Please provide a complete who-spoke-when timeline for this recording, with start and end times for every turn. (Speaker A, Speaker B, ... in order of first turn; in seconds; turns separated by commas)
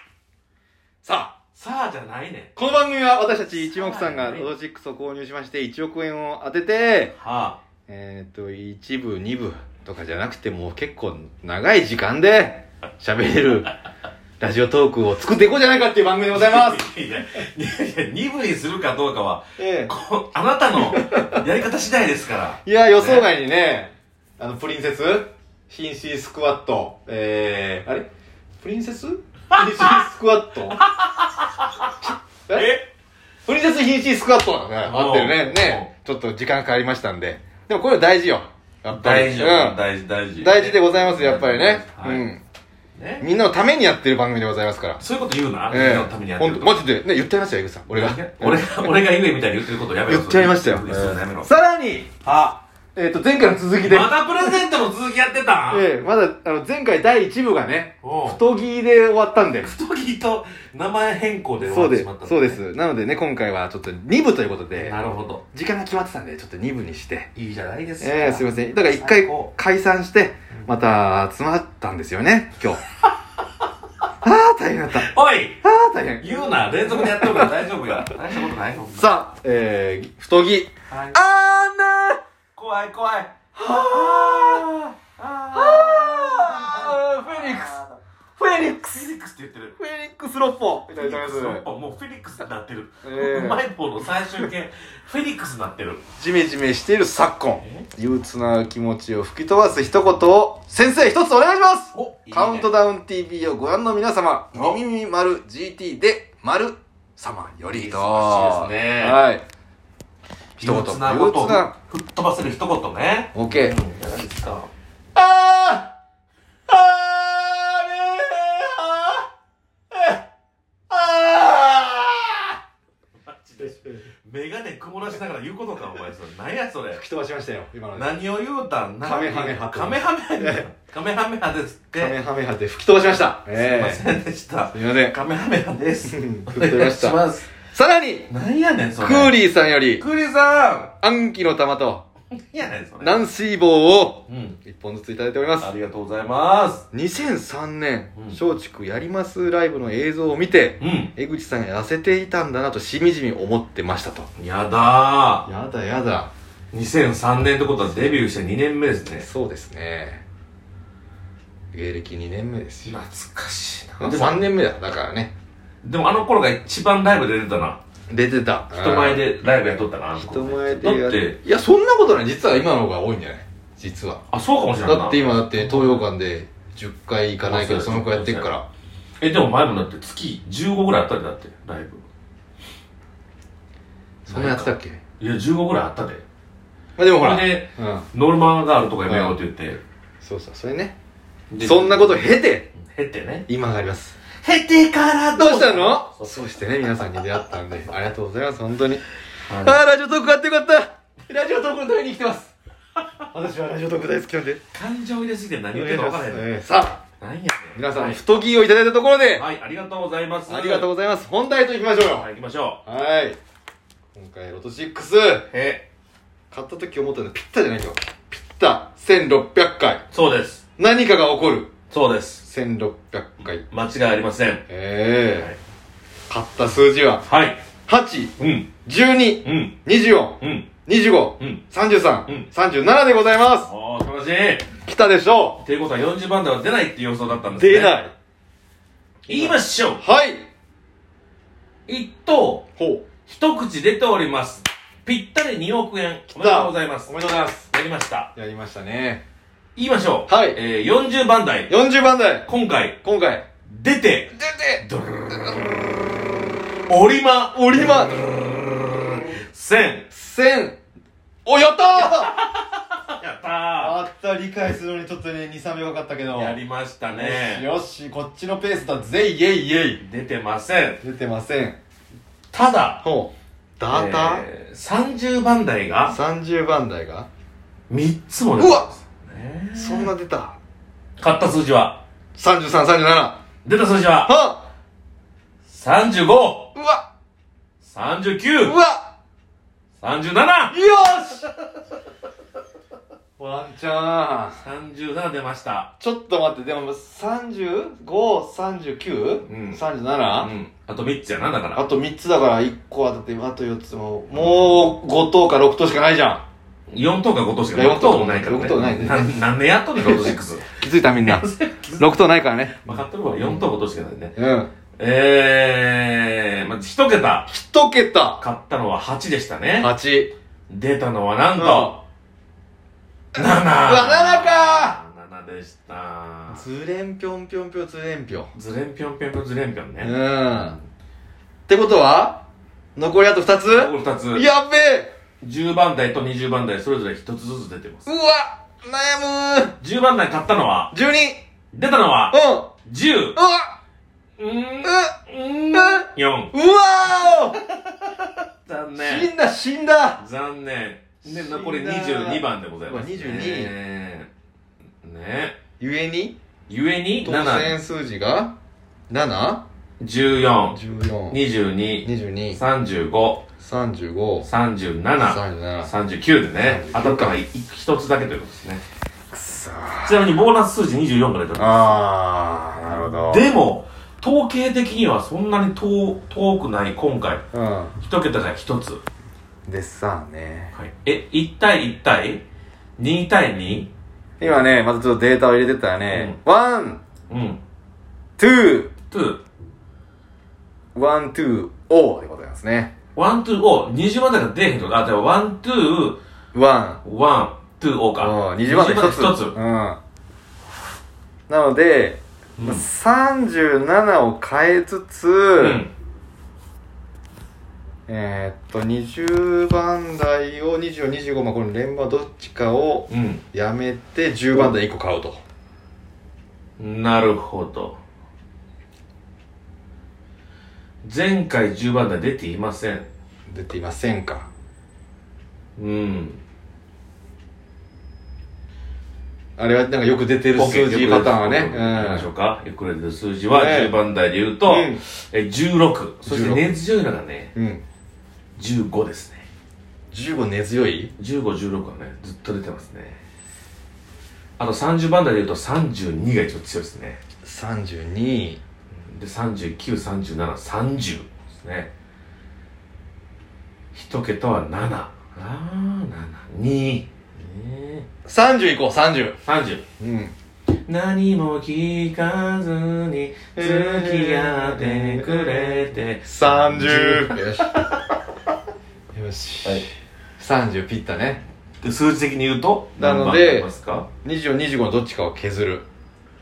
Speaker A: 1.0-1.3, Speaker B: 1.5-2.5, Speaker A: 2.5-7.1, Speaker B: 3.5-4.5, Speaker B: 7.2-7.6, Speaker A: 7.9-13.7, Speaker A: 14.4-16.9, Speaker B: 16.3-23.3, Speaker A: 19.6-19.9, Speaker A: 20.8-21.4, Speaker A: 22.6-28.1, Speaker A: 28.6-30.8, Speaker B: 29.5-30.0, Speaker B: 30.8-31.9, Speaker A: 32.5-32.8, Speaker B: 32.5-32.9, Speaker A: 33.5-39.8, Speaker B: 34.8-35.9, Speaker B: 38.9-42.2, Speaker A: 40.4-42.4, Speaker B: 43.0-43.3, Speaker A: 43.2-45.0, Speaker B: 45.0-46.8, Speaker A: 45.7-49.0, Speaker B: 47.9-51.5, Speaker A: 50.0-52.2, Speaker B: 52.2-52.6, Speaker A: 53.0-54.6, Speaker B: 53.8-55.9, Speaker A: 55.7-59.7, Speaker B: 58.0-58.4, Speaker B: 59.6-62.6, Speaker A: 61.6-65.0, Speaker B: 64.8-65.4, Speaker A: 65.5-67.3, Speaker B: 67.3-69.5, Speaker A: 68.0-72.8, Speaker A: 74.2-75.1, Speaker B: 74.9-75.6, Speaker A: 75.6-78.1, Speaker B: 76.2-79.1, Speaker A: 78.9-82.2, Speaker B: 80.9-81.2, Speaker B: 82.6-87.8, Speaker A: 83.6-84.7, Speaker A: 85.5-87.8, Speaker A: 88.4-89.1, Speaker B: 88.8-89.8, Speaker A: 89.8-91.7, Speaker B: 90.9-96.0, Speaker A: 93.0-93.7, Speaker A: 96.2-109.4, Speaker B: 97.6-97.9, Speaker B: 101.9-102.7, Speaker B: 107.7-109.2, Speaker A: 110.6-111.7, Speaker B: 110.6-114.7, Speaker A: 113.3-113.8, Speaker A: 115.2-115.9, Speaker A: 116.7-119.2, Speaker A: 120.9-122.5, Speaker B: 123.2-127.0, Speaker A: 126.9-128.1, Speaker B: 127.9-132.2, Speaker A: 129.0-130.7, Speaker A: 132.0-134.0, Speaker B: 133.5-137.5, Speaker A: 134.7-135.2, Speaker A: 136.1-138.3, Speaker B: 138.3-139.4, Speaker A: 139.0-140.0, Speaker B: 140.0-140.9, Speaker A: 141.0-142.0, Speaker B: 142.5-143.2, Speaker A: 143.0-145.7, Speaker B: 144.3-144.6, Speaker B: 145.6-146.8, Speaker A: 146.9-154.3, Speaker B: 150.8-151.1, Speaker B: 154.4-155.5, Speaker A: 155.5-156.3, Speaker B: 156.7-159.3, Speaker A: 157.8-158.2, Speaker A: 159.2-160.2, Speaker A: 161.7-163.0, Speaker B: 162.8-164.4, Speaker A: 164.0-165.3, Speaker B: 165.8-167.8, Speaker A: 168.1-174.2, Speaker B: 168.7-171.4, Speaker B: 174.3-176.0, Speaker A: 174.8-178.7, Speaker B: 177.4-178.5, Speaker B: 179.2-182.1, Speaker A: 184.2-185.0, Speaker B: 184.3-186.2, Speaker A: 187.0-188.1, Speaker B: 187.2-189.8, Speaker A: 189.1-189.4, Speaker A: 190.2-191.0, Speaker B: 191.5-193.5, Speaker A: 191.6-192.7, Speaker A: 193.5-194.2, Speaker B: 194.4-196.4, Speaker A: 195.4-199.0, Speaker B: 199.5-199.8, Speaker A: 199.6-202.5, Speaker A: 203.3-204.6, Speaker B: 204.7-206.5, Speaker A: 205.7-207.0, Speaker B: 207.2-208.2, Speaker A: 207.8-209.4, Speaker B: 209.3-210.9, Speaker A: 210.5-212.3, Speaker B: 212.1-212.8, Speaker A: 212.9-213.4, Speaker A: 214.1-215.5, Speaker B: 215.5-215.9, Speaker A: 216.5-220.0, Speaker B: 220.1-220.6, Speaker A: 220.8-221.7, Speaker B: 221.9-222.4, Speaker A: 222.5-223.7, Speaker B: 223.7-224.6, Speaker A: 224.7-225.5, Speaker A: 226.3-227.2, Speaker B: 227.2-227.6, Speaker A: 227.9-228.3, Speaker B: 228.4-228.7, Speaker A: 228.8-233.7, Speaker B: 229.4-229.8, Speaker B: 230.4-230.7, Speaker B: 233.6-234.7, Speaker A: 234.9-235.6, Speaker B: 235.6-238.0, Speaker A: 237.6-238.1, Speaker A: 239.2-240.4, Speaker B: 239.3-240.0, Speaker B: 241.9-242.7, Speaker A: 242.8-243.1, Speaker B: 243.2-248.3, Speaker A: 246.3-247.7, Speaker A: 248.3-249.2, Speaker B: 249.8-251.7, Speaker A: 250.3-250.6, Speaker A: 251.7-252.5, Speaker B: 252.4-253.0, Speaker A: 253.0-253.4, Speaker B: 253.7-255.8, Speaker A: 254.4-255.7, Speaker B: 256.9-260.1, Speaker A: 257.5-258.3, Speaker A: 260.1-260.8, Speaker A: 261.4-262.3, Speaker B: 262.0-263.9, Speaker A: 263.8-270.0, Speaker B: 266.3-267.7, Speaker B: 270.0-271.0, Speaker A: 271.0-271.8, Speaker B: 272.5-273.1, Speaker A: 273.0-274.4, Speaker B: 273.9-276.2, Speaker A: 276.1-277.3, Speaker B: 277.9-280.1, Speaker A: 278.6-278.9, Speaker A: 279.8-280.6, Speaker B: 281.2-282.0, Speaker A: 282.4-283.4, Speaker B: 283.6-284.3, Speaker A: 284.2-284.6, Speaker B: 285.7-286.7, Speaker A: 286.8-287.1, Speaker B: 287.8-288.8, Speaker A: 288.6-289.1, Speaker B: 290.0-290.8, Speaker A: 290.7-291.5, Speaker A: 293.4-294.6, Speaker B: 294.6-295.9, Speaker A: 296.0-300.5, Speaker B: 299.4-301.8, Speaker A: 301.8-306.4, Speaker B: 304.3-304.9, Speaker B: 306.9-312.1, Speaker A: 307.7-309.4, Speaker A: 309.9-313.7, Speaker B: 312.8-314.4, Speaker A: 314.4-314.7, Speaker B: 315.0-317.5, Speaker A: 317.5-318.4, Speaker B: 318.4-319.9, Speaker A: 319.8-320.3, Speaker B: 320.7-322.0, Speaker A: 321.6-322.0, Speaker B: 323.4-326.6, Speaker A: 323.5-325.0, Speaker A: 326.5-328.5, Speaker B: 328.5-330.2, Speaker A: 330.0-330.8, Speaker A: 331.7-332.4, Speaker A: 332.9-335.1, Speaker B: 333.7-334.5, Speaker B: 335.4-338.1, Speaker A: 338.1-339.8, Speaker B: 339.8-340.9, Speaker A: 340.9-341.4, Speaker B: 341.7-343.4, Speaker A: 342.3-342.7, Speaker A: 343.4-343.8, Speaker B: 344.4-346.5, Speaker A: 344.8-345.1, Speaker A: 345.7-347.6, Speaker B: 347.8-349.3, Speaker A: 349.0-350.2, Speaker B: 350.2-354.3, Speaker A: 351.2-353.7, Speaker B: 355.0-355.6, Speaker A: 355.8-356.4, Speaker B: 356.7-357.8, Speaker A: 357.2-358.6, Speaker A: 359.1-359.6, Speaker B: 360.0-360.8, Speaker A: 360.7-361.4, Speaker B: 361.3-363.4, Speaker A: 362.0-362.6, Speaker A: 363.6-364.5, Speaker B: 364.4-368.8, Speaker A: 365.2-365.9, Speaker A: 366.6-367.4, Speaker A: 369.3-370.3, Speaker B: 370.0-372.1, Speaker A: 371.6-373.5, Speaker B: 372.9-377.4, Speaker A: 377.5-377.9, Speaker B: 378.0-379.0, Speaker A: 379.7-380.8, Speaker B: 380.7-382.4, Speaker B: 383.0-383.9, Speaker A: 384.4-387.0, Speaker B: 386.1-386.4, Speaker B: 387.3-387.6, Speaker A: 388.4-388.9, Speaker B: 389.1-389.4, Speaker A: 390.9-392.9, Speaker B: 393.1-396.2, Speaker A: 396.5-397.0, Speaker B: 397.0-399.6, Speaker A: 398.2-400.0, Speaker A: 401.5-405.8, Speaker B: 402.6-402.9, Speaker B: 405.6-405.9, Speaker A: 408.1-415.4, Speaker B: 413.1-413.4, Speaker B: 416.8-418.0, Speaker B: 421.0-423.1, Speaker A: 423.5-424.5, Speaker B: 425.8-426.4, Speaker A: 429.6-432.3, Speaker B: 430.6-437.5, Speaker A: 433.5-433.9, Speaker A: 434.6-435.0, Speaker A: 436.3-436.8, Speaker A: 437.6-437.8, Speaker B: 438.6-439.4, Speaker A: 440.1-441.1, Speaker B: 441.2-443.2, Speaker B: 444.6-447.2, Speaker A: 447.4-448.6, Speaker B: 448.9-451.9, Speaker B: 453.9-458.1, Speaker A: 458.2-459.4, Speaker B: 459.4-459.8, Speaker A: 460.0-460.4, Speaker B: 460.9-468.1, Speaker A: 463.6-467.7, Speaker A: 469.1-469.9, Speaker A: 470.4-471.4, Speaker B: 471.8-474.1, Speaker A: 473.0-473.7, Speaker A: 474.2-475.9